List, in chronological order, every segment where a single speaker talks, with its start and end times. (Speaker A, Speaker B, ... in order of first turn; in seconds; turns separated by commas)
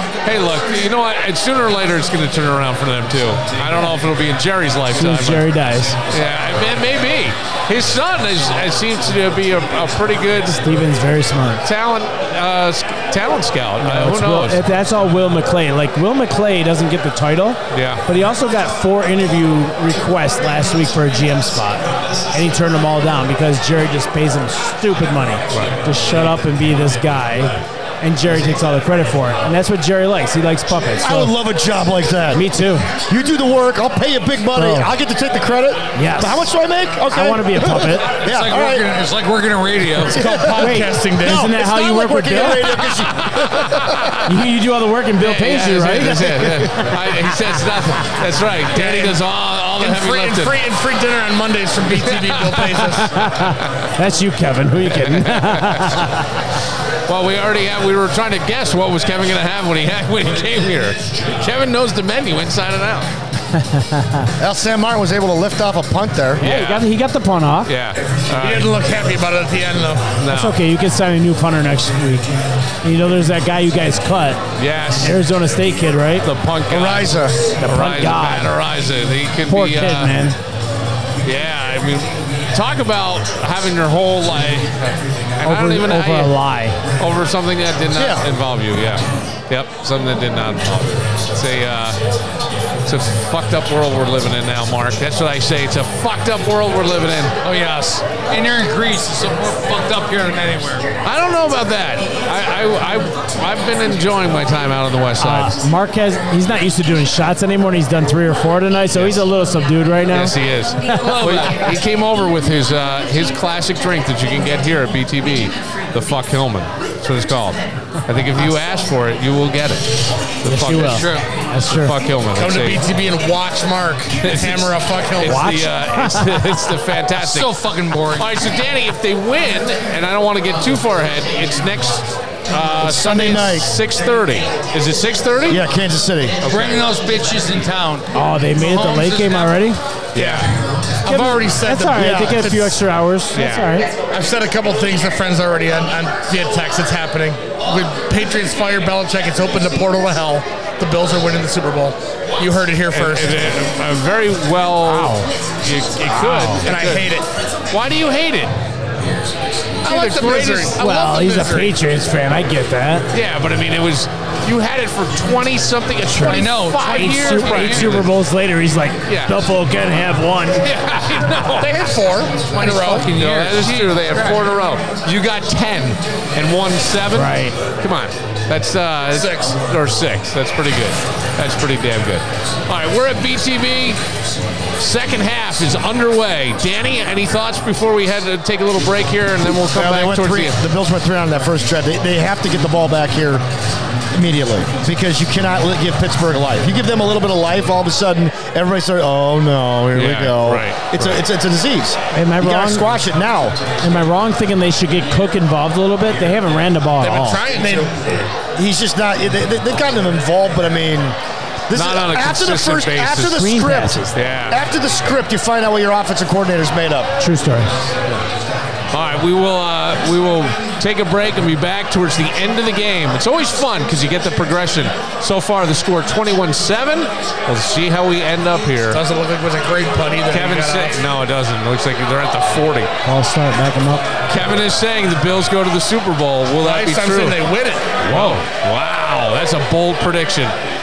Speaker A: 0.2-5.5, Speaker B: 5.0-6.0, Speaker A: 6.1-10.6, Speaker B: 10.5-11.7, Speaker A: 11.6-14.6, Speaker B: 13.8-31.3, Speaker A: 17.7-18.0, Speaker C: 31.0-38.9, Speaker B: 32.3-32.9, Speaker B: 34.5-34.9, Speaker B: 36.0-36.4, Speaker B: 37.1-38.1, Speaker D: 38.2-40.1, Speaker E: 40.1-41.5, Speaker C: 40.1-40.6, Speaker B: 40.6-42.7, Speaker C: 41.2-44.1, Speaker A: 43.4-44.2, Speaker B: 44.2-46.3, Speaker A: 45.2-50.6, Speaker C: 45.9-46.9, Speaker E: 48.7-49.2, Speaker E: 49.8-53.1, Speaker A: 51.9-52.8, Speaker B: 53.0-56.2, Speaker A: 54.9-56.0, Speaker A: 57.1-63.1, Speaker B: 63.5-64.3, Speaker C: 64.4-66.4, Speaker B: 66.4-67.7, Speaker A: 66.4-66.9, Speaker A: 67.7-68.8, Speaker E: 68.4-70.1, Speaker A: 70.2-70.6, Speaker B: 70.3-72.3, Speaker B: 72.8-74.4, Speaker A: 74.6-75.2, Speaker B: 75.0-76.3, Speaker A: 76.2-80.1, Speaker C: 76.7-77.4, Speaker B: 77.6-78.6, Speaker B: 79.5-80.4, Speaker A: 81.2-86.3, Speaker B: 85.4-86.8, Speaker A: 87.0-92.0, Speaker C: 87.9-88.2, Speaker A: 92.9-97.3, Speaker D: 97.4-100.9, Speaker A: 101.0-105.6, Speaker B: 105.2-111.4, Speaker A: 108.9-109.2, Speaker A: 110.1-121.1, Speaker D: 111.0-111.7, Speaker B: 120.4-122.0, Speaker D: 120.8-121.2, Speaker A: 121.7-122.8, Speaker E: 122.3-125.5, Speaker A: 124.2-127.5, Speaker B: 125.2-126.4, Speaker D: 127.2-128.4, Speaker A: 128.1-135.6, Speaker C: 132.8-133.7, Speaker C: 135.5-136.3, Speaker A: 136.4-136.8, Speaker D: 136.5-139.6, Speaker B: 138.1-139.8, Speaker A: 140.2-140.5, Speaker E: 140.2-140.4, Speaker E: 141.0-142.8, Speaker B: 141.1-143.9, Speaker C: 142.0-142.4, Speaker A: 143.3-143.7, Speaker E: 144.1-153.4, Speaker A: 152.9-157.1, Speaker B: 156.2-156.6, Speaker E: 156.4-157.3, Speaker A: 157.7-158.6, Speaker E: 159.8-161.8, Speaker A: 159.8-160.8, Speaker B: 160.7-163.1, Speaker A: 163.1-168.1, Speaker B: 166.1-170.6, Speaker D: 166.2-168.0, Speaker A: 169.1-169.4, Speaker A: 170.6-171.8, Speaker E: 171.5-173.1, Speaker D: 172.5-174.4, Speaker A: 172.6-184.0, Speaker B: 177.1-177.6, Speaker E: 179.1-179.6, Speaker A: 184.8-190.6, Speaker C: 189.6-193.4, Speaker C: 194.1-203.6, Speaker A: 199.9-201.2, Speaker B: 202.1-202.9, Speaker B: 203.8-207.4, Speaker E: 207.0-208.0, Speaker C: 208.5-211.2, Speaker C: 211.7-217.1, Speaker A: 211.7-213.4, Speaker B: 213.3-214.2, Speaker A: 214.1-214.6, Speaker B: 217.2-217.7, Speaker A: 218.9-229.0, Speaker E: 228.9-231.0, Speaker A: 230.3-232.9, Speaker B: 233.0-234.1, Speaker A: 234.3-237.5, Speaker E: 236.6-238.4, Speaker A: 238.0-240.6